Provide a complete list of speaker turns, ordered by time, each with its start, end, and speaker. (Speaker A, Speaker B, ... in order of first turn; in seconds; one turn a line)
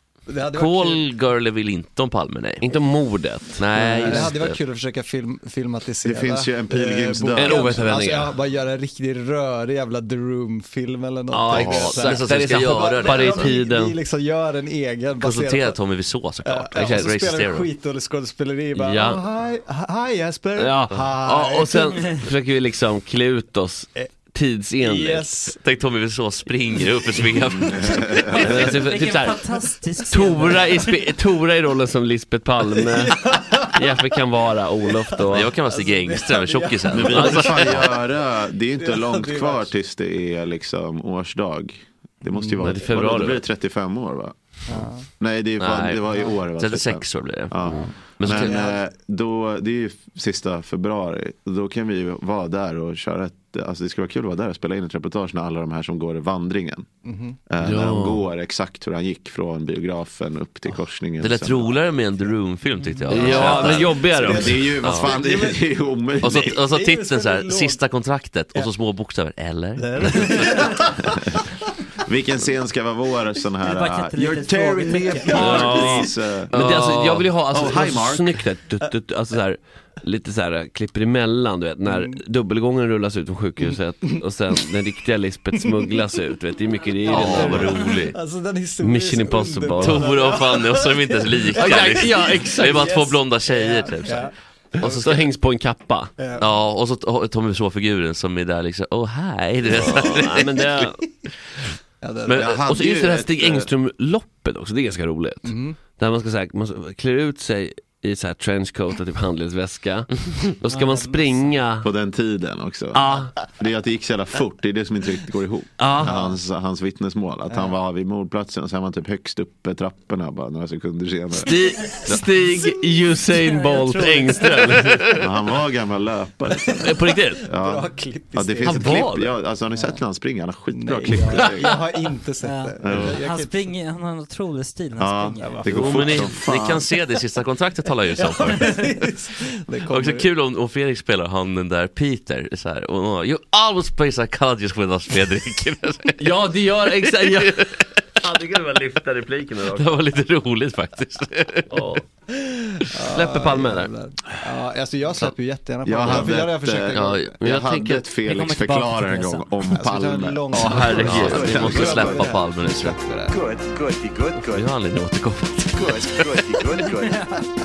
Speaker A: 0.3-1.1
Speaker B: 0.5-2.6
Speaker C: 2.6-4.3
Speaker B: 3.6-4.6
Speaker A: 3.8-15.8
Speaker D: 6.0-7.8
Speaker C: 7.3-8.3
Speaker C: 11.3-14.0
Speaker B: 11.5-13.6
Speaker B: 15.2-17.7
Speaker A: 16.4-22.0
Speaker C: 16.8-17.2
Speaker C: 18.8-19.2
Speaker C: 20.6-25.5
Speaker E: 22.0-22.2
Speaker A: 24.8-25.6
Speaker B: 25.6-28.3
Speaker A: 26.8-27.3
Speaker D: 27.6-28.5
Speaker E: 28.3-31.1
Speaker A: 28.3-28.6
Speaker C: 28.4-29.5
Speaker C: 30.1-35.5
Speaker A: 32.8-34.2
Speaker A: 34.8-38.0
Speaker B: 35.2-37.9
Speaker D: 36.9-56.9
Speaker A: 38.8-39.7
Speaker A: 42.3-42.8
Speaker C: 42.6-43.4
Speaker A: 44.7-45.1
Speaker B: 45.6-48.7
Speaker A: 48.2-48.8
Speaker A: 57.0-57.4
Speaker D: 57.5-61.8
Speaker C: 57.6-58.2
Speaker B: 61.2-64.2
Speaker A: 63.1-65.7
Speaker C: 63.1-64.8
Speaker D: 63.3-66.6
Speaker B: 64.8-65.1
Speaker B: 66.2-70.9
Speaker A: 66.2-67.8
Speaker A: 69.8-71.4
Speaker D: 72.0-76.5
Speaker E: 73.6-76.1
Speaker A: 75.2-76.0
Speaker C: 75.3-87.8
Speaker B: 76.5-77.3
Speaker D: 77.5-78.5
Speaker A: 81.9-82.2
Speaker A: 83.7-84.2
Speaker A: 85.6-86.0
Speaker A: 87.0-95.2
Speaker B: 87.0-88.2
Speaker C: 88.8-90.2
Speaker B: 89.8-95.3
Speaker C: 91.5-93.0
Speaker C: 94.8-96.2
Speaker A: 96.2-96.5
Speaker B: 96.4-100.9
Speaker C: 99.7-101.0
Speaker A: 102.0-102.5
Speaker B: 102.3-102.5
Speaker D: 102.3-103.7
Speaker C: 102.5-111.9
Speaker A: 105.5-105.8
Speaker E: 110.7-111.6
Speaker D: 111.8-122.1
Speaker C: 112.9-113.3
Speaker C: 115.8-116.2
Speaker A: 117.5-117.8
Speaker C: 121.4-125.2
Speaker E: 123.3-125.1
Speaker D: 125.2-126.9
Speaker A: 126.6-129.2
Speaker C: 126.8-127.5
Speaker D: 127.4-131.8
Speaker C: 128.6-129.4
Speaker A: 129.7-130.0
Speaker A: 130.7-133.7
Speaker E: 132.4-135.7
Speaker D: 132.8-133.2
Speaker D: 135.0-136.9
Speaker A: 135.4-136.3
Speaker B: 135.7-138.7
Speaker A: 138.1-140.3
Speaker B: 139.9-147.9
Speaker C: 146.2-150.0
Speaker B: 149.7-152.0
Speaker C: 151.7-152.0
Speaker A: 152.9-157.4
Speaker C: 153.1-153.9
Speaker D: 155.8-162.3
Speaker B: 156.1-156.3
Speaker B: 156.9-158.0
Speaker C: 157.4-158.0
Speaker E: 158.2-159.5
Speaker A: 159.7-163.4
Speaker B: 160.5-163.0
Speaker F: 163.3-164.7
Speaker B: 164.5-166.6
Speaker F: 165.7-167.3
Speaker E: 167.1-167.3